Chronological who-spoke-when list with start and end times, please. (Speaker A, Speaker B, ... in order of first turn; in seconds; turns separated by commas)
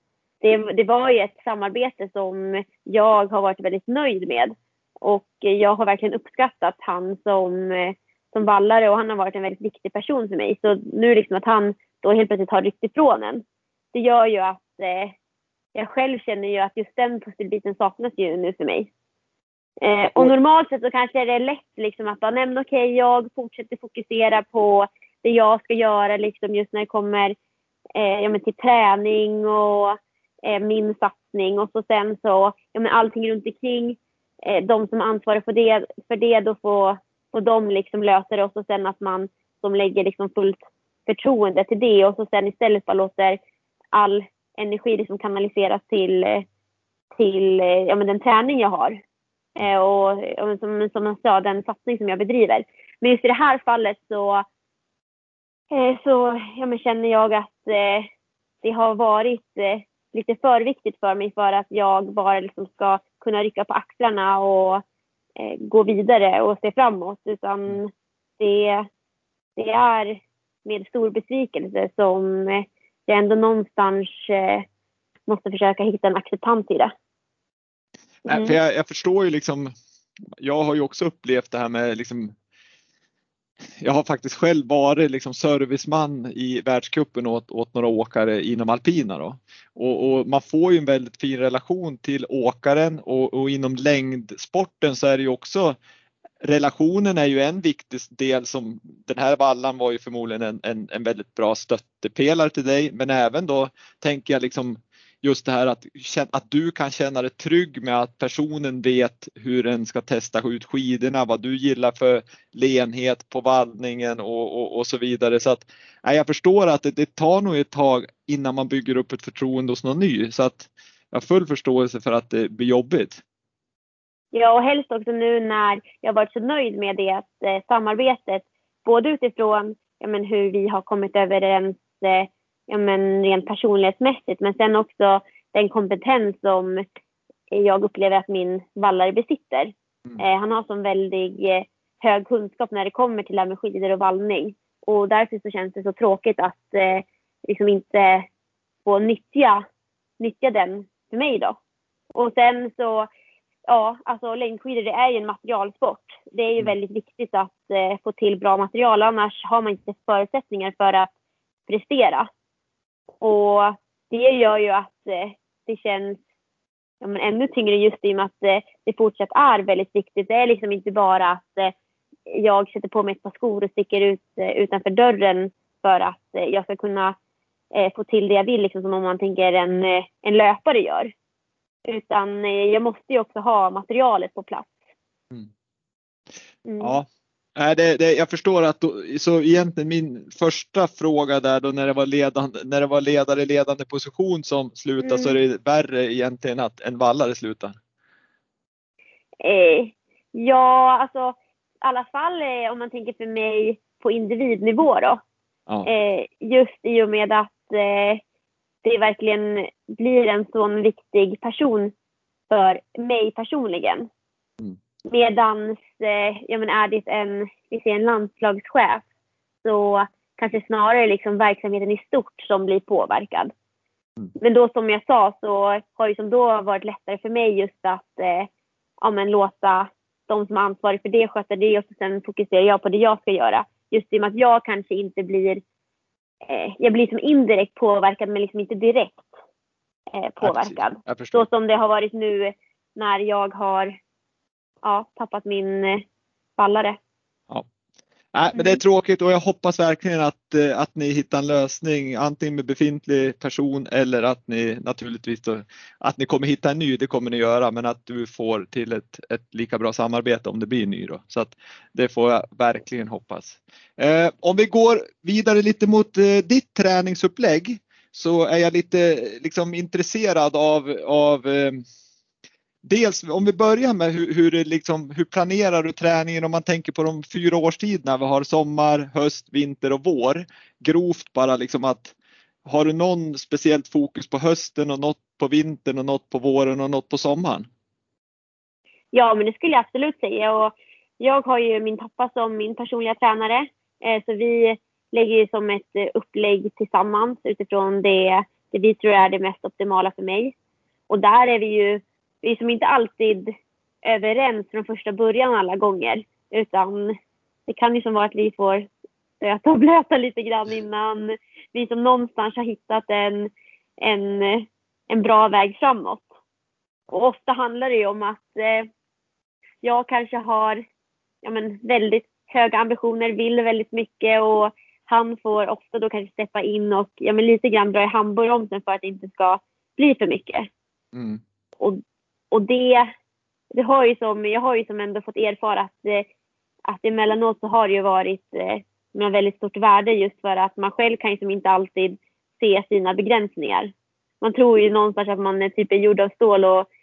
Speaker A: 0.4-15.2, Speaker A: 15.8-18.9, Speaker A: 19.8-27.4, Speaker A: 27.9-43.4, Speaker A: 43.9-46.5, Speaker A: 47.1-49.0, Speaker A: 49.6-54.5, Speaker A: 55.7-58.1, Speaker A: 58.6-64.8, Speaker A: 65.4-68.8, Speaker A: 69.6-74.7, Speaker A: 75.3-76.9, Speaker B: 78.3-79.7, Speaker A: 78.3-78.6, Speaker B: 80.4-82.3, Speaker B: 83.8-95.8, Speaker B: 96.4-123.2, Speaker A: 124.3-136.8, Speaker A: 137.5-148.3, Speaker A: 148.8-149.6, Speaker A: 150.2-151.6, Speaker A: 152.2-153.1, Speaker A: 153.7-161.1, Speaker A: 161.7-162.3, Speaker A: 163.2-166.2, Speaker A: 167.0-171.7, Speaker A: 172.3-177.2, Speaker A: 177.7-181.1, Speaker A: 181.9-184.7, Speaker A: 186.7-187.0, Speaker B: 186.8-197.8, Speaker A: 195.0-195.4, Speaker A: 199.4-205.2, Speaker A: 205.8-208.2, Speaker A: 208.8-211.9, Speaker A: 212.5-214.1, Speaker A: 215.1-219.0, Speaker A: 219.6-223.5, Speaker A: 224.4-228.5, Speaker A: 229.0-235.6, Speaker A: 236.5-239.3, Speaker A: 240.1-243.9, Speaker B: 240.4-241.5, Speaker A: 244.8-246.0, Speaker A: 246.6-247.0, Speaker B: 248.3-271.8, Speaker A: 248.5-248.8, Speaker B: 272.8-282.1, Speaker B: 282.6-287.7, Speaker A: 289.1-300.5, Speaker A: 301.1-303.5, Speaker A: 304.1-307.1, Speaker A: 307.7-308.9, Speaker A: 309.4-313.5, Speaker A: 314.0-316.3, Speaker A: 317.1-318.9, Speaker A: 319.8-320.8, Speaker A: 321.4-330.7, Speaker B: 331.1-331.4, Speaker A: 332.5-333.1, Speaker A: 333.7-336.2, Speaker A: 336.9-346.9